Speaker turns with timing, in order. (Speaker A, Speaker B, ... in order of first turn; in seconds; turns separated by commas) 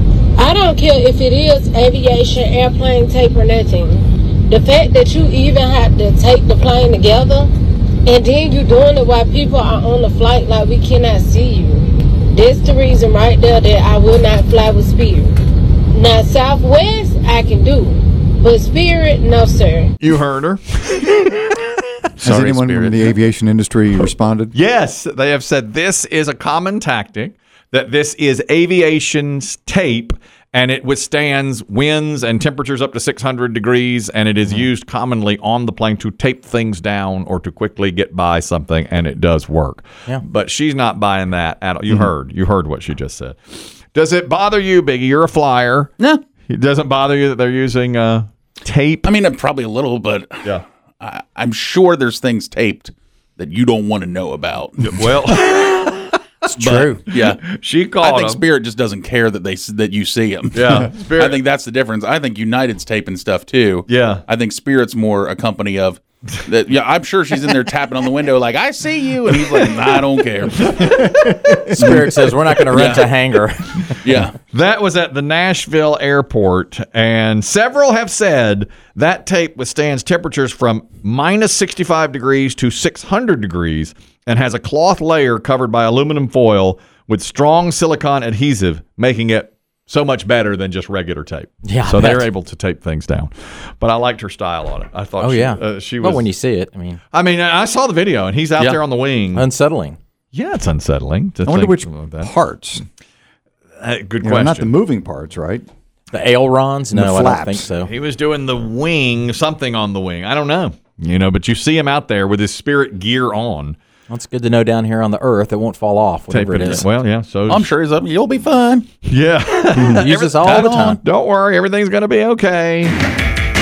Speaker A: 0.4-7.5, Speaker A: 8.1-15.4, Speaker A: 15.9-19.9, Speaker B: 20.0-21.4, Speaker C: 22.2-24.5, Speaker D: 22.2-23.1, Speaker B: 24.5-43.4, Speaker B: 43.9-45.9, Speaker B: 46.5-49.1, Speaker D: 49.0-50.5, Speaker D: 51.0-55.2, Speaker B: 54.8-58.4, Speaker E: 56.5-57.0, Speaker D: 57.1-57.4, Speaker D: 58.0-71.0, Speaker B: 60.5-61.4, Speaker B: 63.9-64.2, Speaker C: 70.9-72.0, Speaker E: 71.8-74.0, Speaker D: 71.8-72.1, Speaker D: 72.7-73.1, Speaker D: 74.0-74.3, Speaker B: 74.5-96.3, Speaker E: 91.7-92.3, Speaker E: 95.2-97.0, Speaker B: 97.1-99.5, Speaker E: 99.3-100.0, Speaker B: 100.3-102.3, Speaker C: 101.5-102.8, Speaker B: 103.8-104.7, Speaker C: 104.2-105.7, Speaker E: 106.1-107.9, Speaker C: 106.9-107.7, Speaker B: 107.8-113.8, Speaker E: 114.1-116.9, Speaker B: 116.3-117.7, Speaker D: 117.5-118.9, Speaker B: 119.0-123.0, Speaker E: 119.9-121.0, Speaker D: 120.4-121.0